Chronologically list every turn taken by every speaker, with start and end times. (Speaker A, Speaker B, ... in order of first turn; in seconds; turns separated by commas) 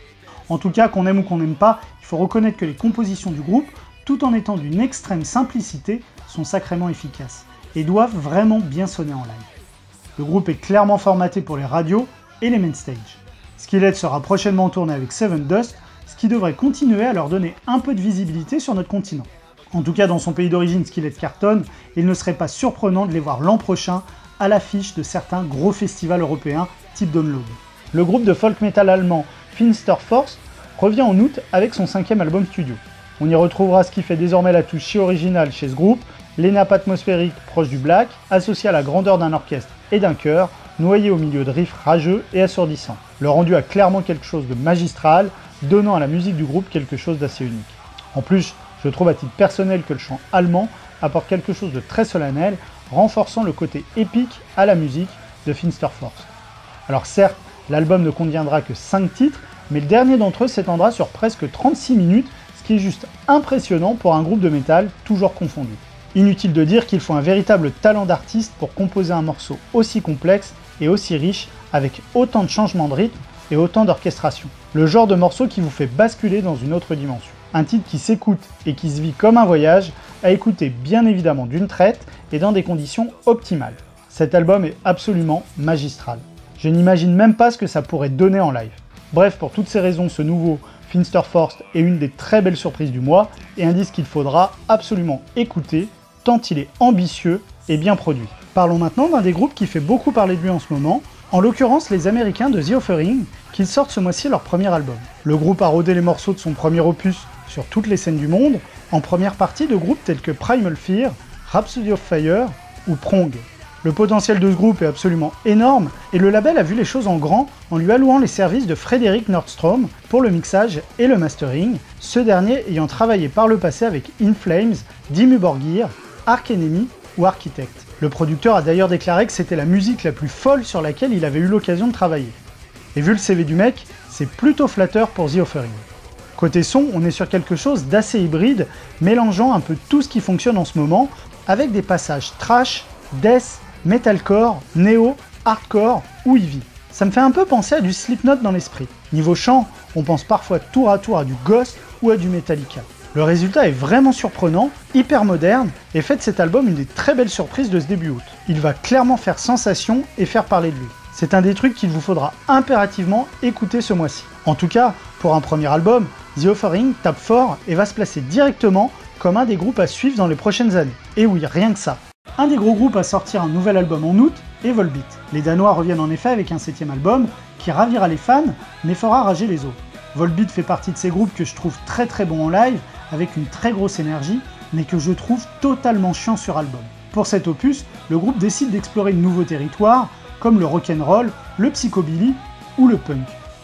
Speaker A: 0.5-9.5, Speaker A: 10.2-56.3, Speaker A: 56.9-132.4, Speaker A: 132.9-135.8, Speaker A: 136.4-193.4